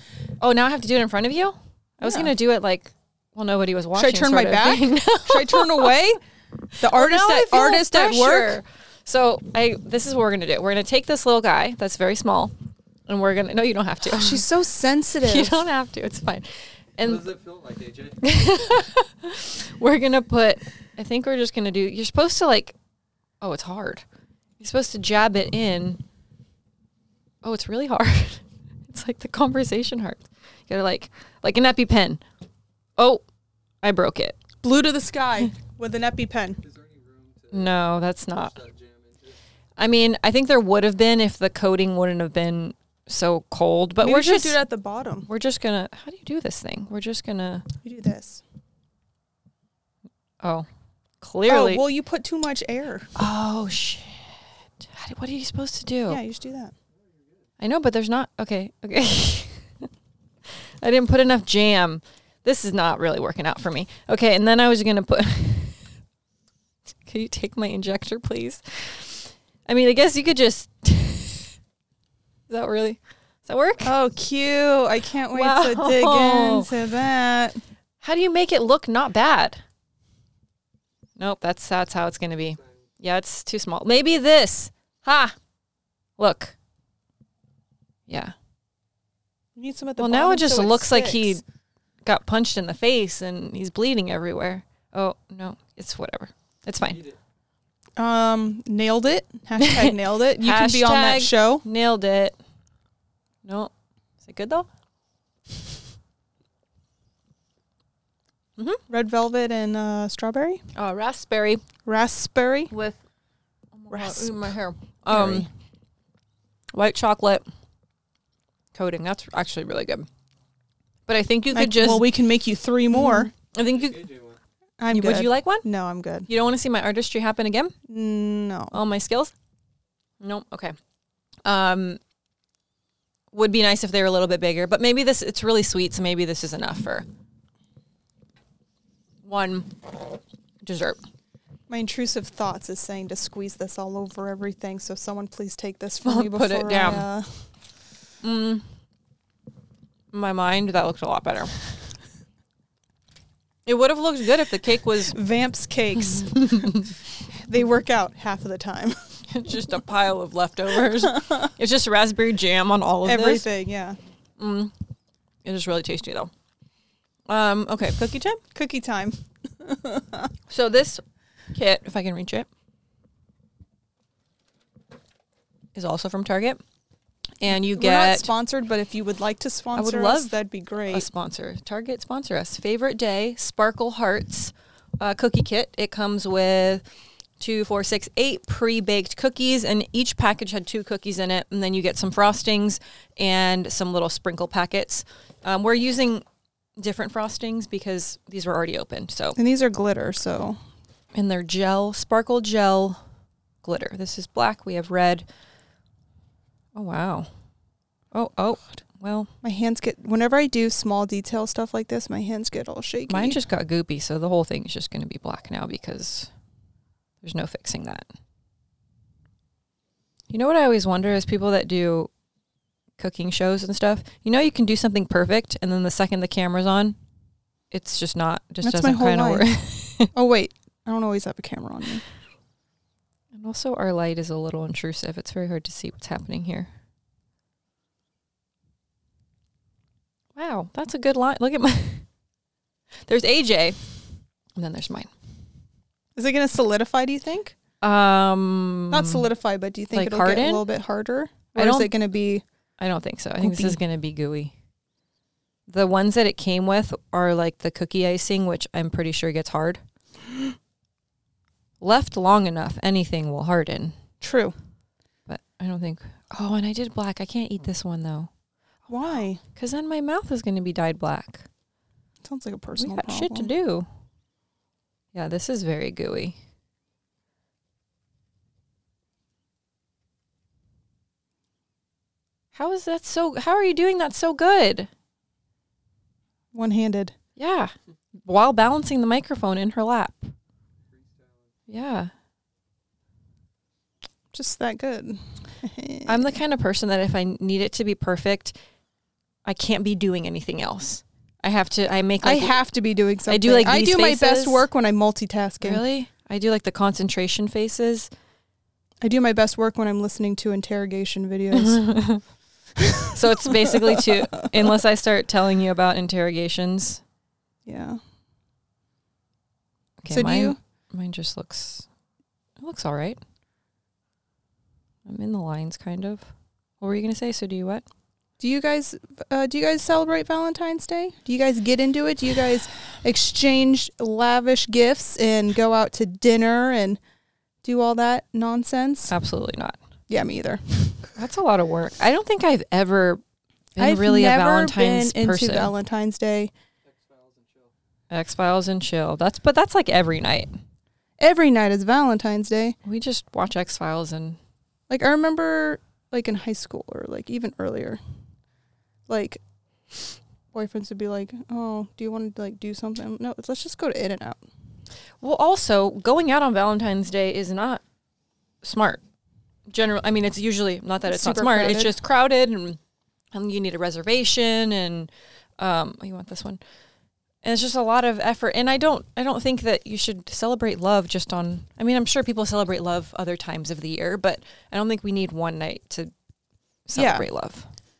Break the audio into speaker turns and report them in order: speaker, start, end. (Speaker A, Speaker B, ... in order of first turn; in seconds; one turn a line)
Speaker A: 0.4-5.9
Speaker B: 2.0-2.3
Speaker B: 4.0-6.2
Speaker B: 6.8-8.6
Speaker A: 6.8-12.5
Speaker A: 13.1-14.4
Speaker B: 14.1-15.7
Speaker A: 15.2-17.3
Speaker C: 17.0-18.7
Speaker A: 18.2-22.8
Speaker A: 23.4-24.0
Speaker A: 24.6-26.0
Speaker A: 27.4-32.2
Speaker A: 33.0-33.2
Speaker A: 33.8-34.4
Speaker B: 34.6-36.6
Speaker C: 36.6-39.4
Speaker A: 37.5-38.5
Speaker A: 39.8-44.6
Speaker B: 44.0-45.3
Speaker A: 45.3-47.7
Speaker B: 47.8-48.4
Speaker A: 50.4-50.7
Speaker A: 51.2-51.8
Speaker B: 51.5-53.1
Speaker A: 53.2-56.2
Speaker B: 56.1-56.7
Speaker A: 57.6-59.9
Speaker A: 60.8-65.8
Speaker A: 67.1-71.5
Speaker A: 72.5-73.9
Speaker B: 73.8-77.6
Speaker A: 75.3-76.7
Speaker A: 78.0-79.6
Speaker A: 81.2-85.3
Speaker A: 86.2-86.5
Speaker A: 88.1-88.3
Speaker B: 89.6-91.3
Speaker A: 90.0-91.4
Speaker A: 92.0-97.0
Speaker B: 98.0-101.6
Speaker A: 99.6-102.4
Speaker A: 103.5-104.7
Speaker B: 108.9-110.6
Speaker A: 110.8-111.6
Speaker B: 111.8-112.7
Speaker A: 112.7-113.0
Speaker A: 113.8-115.5
Speaker B: 113.9-114.5
Speaker B: 115.1-115.5
Speaker A: 116.7-117.4
Speaker A: 118.7-120.1
Speaker A: 121.1-122.1
Speaker B: 121.5-123.3
Speaker A: 122.9-124.1
Speaker C: 123.6-124.4
Speaker B: 124.8-126.3
Speaker A: 124.9-125.7
Speaker A: 126.3-127.8
Speaker B: 127.9-128.8
Speaker A: 128.7-129.3
Speaker A: 130.2-130.8
Speaker A: 131.4-132.0
Speaker A: 133.3-137.1
Speaker A: 139.2-139.8
Speaker A: 140.6-141.0
Speaker B: 141.7-147.4
Speaker A: 146.0-147.1
Speaker A: 148.2-148.7
Speaker A: 150.1-151.5
Speaker A: 153.7-155.2
Speaker B: 155.1-156.8
Speaker A: 156.0-156.9
Speaker B: 157.4-159.0
Speaker A: 159.3-163.5
Speaker B: 160.9-161.5
Speaker B: 163.1-164.0
Speaker A: 164.4-164.7
Speaker A: 165.4-166.3
Speaker A: 167.3-168.4
Speaker B: 168.5-170.3
Speaker A: 170.5-171.0
Speaker A: 171.5-172.5
Speaker A: 175.8-176.6
Speaker A: 177.4-178.3
Speaker B: 177.5-181.1
Speaker A: 179.8-186.8
Speaker A: 187.4-196.2
Speaker A: 196.8-199.4
Speaker B: 199.4-200.6
Speaker A: 201.2-203.0
Speaker A: 203.6-205.3
Speaker A: 206.8-207.3
Speaker A: 208.1-209.3
Speaker B: 209.4-213.4
Speaker A: 213.1-216.3
Speaker A: 217.2-218.1
Speaker A: 220.3-222.1
Speaker A: 223.0-227.0
Speaker A: 227.7-230.1
Speaker B: 228.6-229.4
Speaker B: 230.1-232.0
Speaker A: 233.3-236.7
Speaker A: 240.4-242.1
Speaker A: 243.1-243.8
Speaker A: 244.6-245.1
Speaker B: 246.2-247.6
Speaker A: 247.8-249.3
Speaker B: 248.9-252.4
Speaker A: 249.9-250.6
Speaker A: 251.6-251.9
Speaker A: 252.8-254.5
Speaker B: 253.4-253.8
Speaker A: 255.7-259.8
Speaker A: 261.8-263.9
Speaker B: 264.2-264.6
Speaker A: 265.3-268.3
Speaker B: 268.9-269.4
Speaker A: 269.6-271.5
Speaker B: 272.2-273.5
Speaker A: 272.8-273.9
Speaker A: 275.1-276.4
Speaker A: 282.6-284.9
Speaker B: 286.5-287.1
Speaker A: 287.4-287.7
Speaker A: 288.2-290.3
Speaker C: 290.9-291.5
Speaker A: 291.7-292.1
Speaker B: 294.3-296.3
Speaker A: 296.1-298.6
Speaker A: 299.4-302.6
Speaker B: 302.2-305.8
Speaker A: 303.3-304.7
Speaker A: 305.6-308.1
Speaker B: 309.0-311.9
Speaker A: 311.5-312.2
Speaker B: 312.8-314.2
Speaker A: 313.1-317.0
Speaker B: 317.6-318.0
Speaker A: 320.0-321.9
Speaker B: 320.1-320.6
Speaker A: 322.6-323.2
Speaker A: 325.1-326.3
Speaker A: 326.8-327.9
Speaker B: 328.4-337.0
Speaker B: 337.6-339.1
Speaker A: 339.1-339.8
Speaker B: 340.1-341.1
Speaker A: 341.2-343.2
Speaker A: 343.8-345.7
Speaker B: 343.8-346.5
Speaker C: 346.8-347.7
Speaker A: 348.1-350.5
Speaker B: 351.2-352.8
Speaker A: 352.9-354.4
Speaker B: 354.9-358.0
Speaker B: 359.1-359.4
Speaker B: 360.5-364.4
Speaker A: 365.2-367.8
Speaker A: 368.6-369.0
Speaker A: 369.7-372.8
Speaker B: 371.1-371.9
Speaker A: 373.3-376.6
Speaker A: 377.4-386.1
Speaker A: 386.9-387.7
Speaker B: 386.9-387.3